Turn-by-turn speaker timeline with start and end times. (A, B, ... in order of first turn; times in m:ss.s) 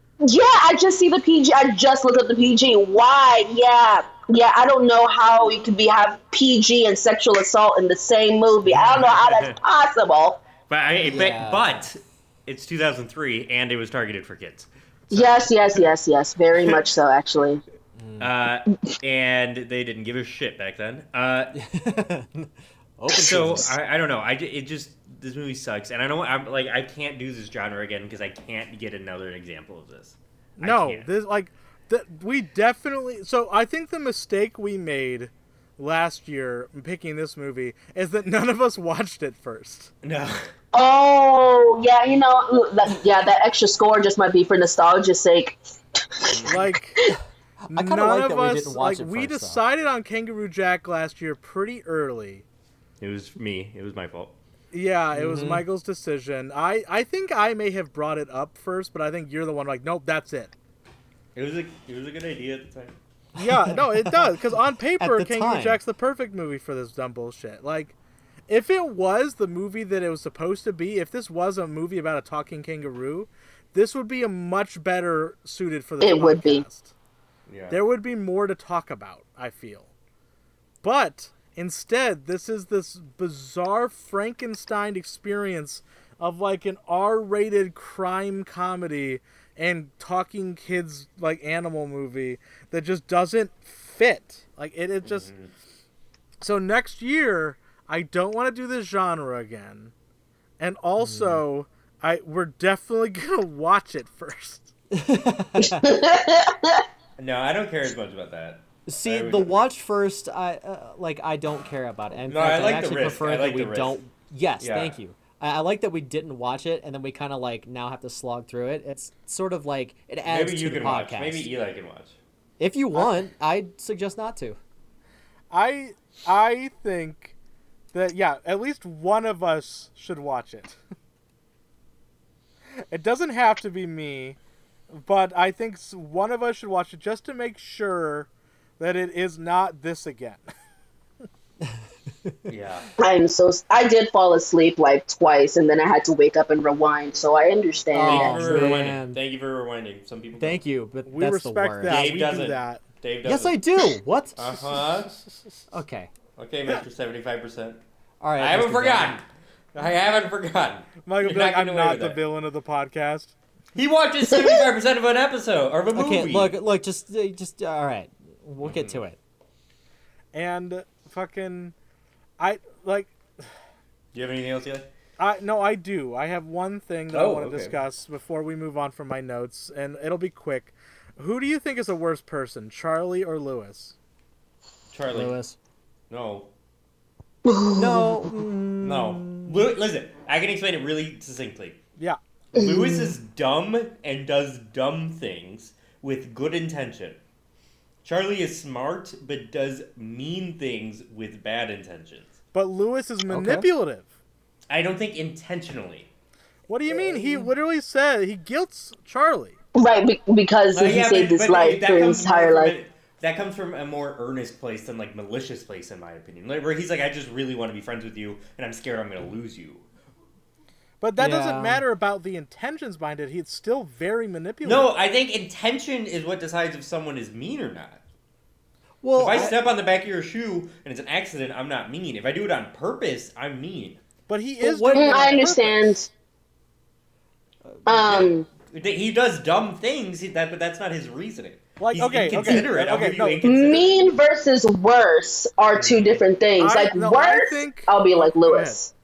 0:00.2-0:10.4 A
0:08.7-0:09.6 B
0:10.7-0:15.9 B
0:11.0-0:11.9 C
0:15.1-0:17.6 A
0:18.0-0:18.3 C
0:18.2-0:21.6 B
0:21.6-0:23.8 C
0:23.1-0:31.1 B
0:30.6-0:39.9 D
0:40.0-0:40.5 B
0:40.7-0:45.6 A
0:46.2-0:46.5 A
0:46.3-0:46.6 B
0:46.4-0:47.0 D
0:47.6-0:49.6 C
0:47.7-0:52.4 D
0:53.0-0:54.4 B
0:54.7-1:00.5 D
0:55.1-0:55.6 C
1:01.4-1:03.0 B
1:03.4-1:08.0 D
1:03.4-1:04.4 C
1:05.0-1:05.8 C
1:08.5-1:16.9 D
1:16.0-1:16.6 A
1:17.5-1:17.8 B
1:17.7-1:19.9 D
1:20.8-1:35.3 D
1:35.0-1:35.5 B
1:36.4-1:39.9 D
1:40.6-1:44.7 D
1:41.0-1:41.4 C
1:44.9-1:46.0 C
1:45.6-1:46.8 A
1:47.2-1:49.5 B
1:48.9-2:01.5 C
1:52.3-1:54.0 B
1:54.6-1:54.9 B
2:00.2-2:02.2 B
2:02.6-2:04.6 C
2:05.5-2:07.3 D
2:07.9-2:10.8 D
2:12.9-2:14.4 D
2:14.9-2:20.4 D
2:22.5-2:22.9 B
2:23.0-2:28.7 A
2:27.9-2:29.2 C
2:28.0-2:30.6 B
2:30.4-2:32.1 C
2:31.1-2:32.8 D
2:31.9-2:33.6 B
2:33.2-2:34.6 C
2:34.4-2:35.1 B
2:35.7-2:36.1 C
2:36.4-2:37.8 B
2:38.2-2:39.2 C
2:38.4-2:42.2 B
2:41.0-2:43.3 D
2:43.8-2:46.5 B
2:44.3-2:44.6 A
2:45.9-2:49.2 C
2:48.6-2:49.0 B
2:50.3-2:51.8 D
2:52.4-2:53.1 D
2:54.1-2:54.9 B
2:55.2-3:04.0 D
2:57.1-2:57.8 B
3:04.9-3:05.3 B
3:05.1-3:05.6 C
3:06.1-3:06.5 B
3:07.4-3:08.2 A
3:07.8-3:09.7 C
3:08.8-3:11.8 B
3:12.5-3:17.2 B
3:12.6-3:13.1 A
3:18.0-3:22.4 B
3:22.5-3:24.1 D
3:23.3-3:23.7 C
3:24.7-3:26.1 B
3:26.7-3:29.6 D
3:26.9-3:27.5 C
3:29.8-3:32.7 A
3:30.7-3:39.9 B
3:41.0-3:44.9 D
3:41.2-3:41.8 C
3:44.6-3:48.0 B
3:49.0-3:49.6 C
3:49.2-3:54.0 B
3:54.3-3:56.0 D
3:54.6-3:55.5 C
3:54.9-3:56.1 A
3:57.9-3:58.5 A
3:57.9-4:04.2 B
4:01.8-4:03.4 D
4:03.4-4:08.9 A
4:05.8-4:06.2 B
4:06.6-4:08.8 D